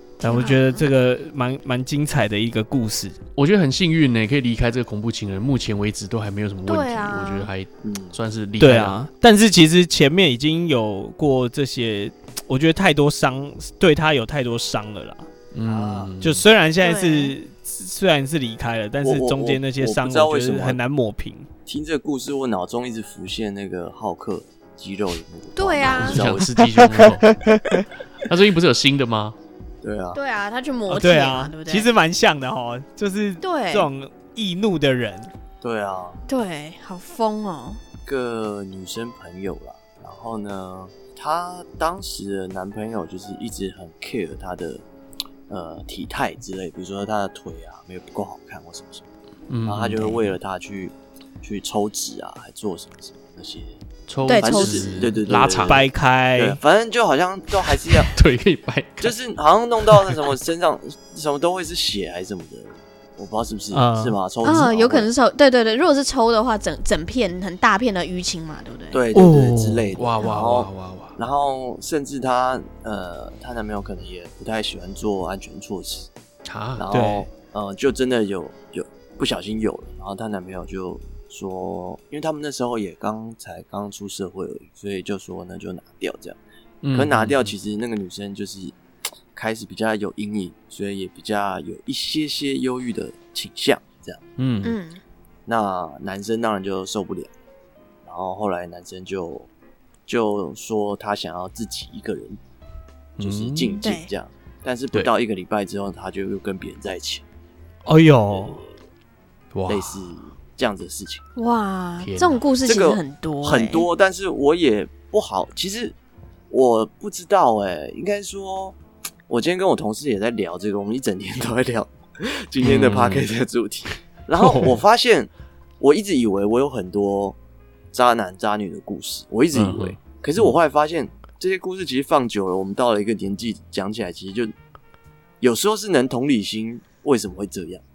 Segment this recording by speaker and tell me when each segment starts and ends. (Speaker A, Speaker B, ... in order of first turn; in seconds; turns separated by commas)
Speaker A: 0.2-3.2, Speaker B: 0.2-0.9, Speaker C: 3.4-9.0, Speaker B: 6.7-7.5, Speaker D: 7.8-8.2, Speaker A: 8.6-15.3, Speaker C: 15.5-16.4, Speaker D: 15.7-16.1, Speaker A: 16.2-21.5, Speaker B: 16.8-17.4, Speaker D: 19.0-20.8, Speaker D: 21.7-26.6, Speaker B: 25.6-26.2, Speaker C: 25.8-27.2, Speaker A: 26.8-27.8, Speaker C: 28.2-29.4, Speaker D: 29.8-30.2, Speaker B: 30.1-31.9, Speaker A: 30.9-35.3, Speaker B: 33.4-33.9, Speaker D: 35.6-36.2, Speaker B: 36.3-37.8, Speaker D: 38.1-44.8, Speaker D: 45.5-49.0, Speaker C: 49.5-50.4, Speaker D: 49.6-53.8, Speaker C: 54.1-55.8, Speaker B: 54.3-55.0, Speaker D: 54.4-58.1, Speaker A: 55.6-56.6, Speaker C: 58.0-59.1, Speaker D: 59.0-65.1, Speaker A: 63.7-64.2, Speaker B: 64.4-69.0, Speaker D: 68.9-76.1, Speaker A: 69.1-70.0, Speaker C: 70.0-71.2, Speaker C: 76.5-76.9, Speaker D: 76.8-86.4, Speaker A: 76.9-77.3, Speaker C: 86.8-87.5, Speaker D: 86.9-88.8, Speaker D: 89.3-94.2, Speaker C: 94.4-94.8, Speaker B: 94.6-95.0, Speaker D: 95.5-97.3, Speaker D: 98.0-99.5, Speaker D: 100.1-102.4, Speaker C: 103.2-103.8, Speaker D: 103.2-107.2, Speaker B: 103.8-104.1, Speaker A: 107.9-108.6, Speaker D: 108.3-108.7, Speaker C: 109.5-110.1, Speaker D: 109.7-111.2, Speaker B: 111.4-113.9, Speaker C: 112.0-112.4, Speaker D: 112.7-116.0, Speaker D: 116.5-118.8, Speaker D: 119.3-127.4, Speaker C: 122.6-123.3, Speaker C: 124.4-124.8, Speaker D: 127.9-134.5, Speaker C: 129.5-130.5, Speaker D: 135.4-137.8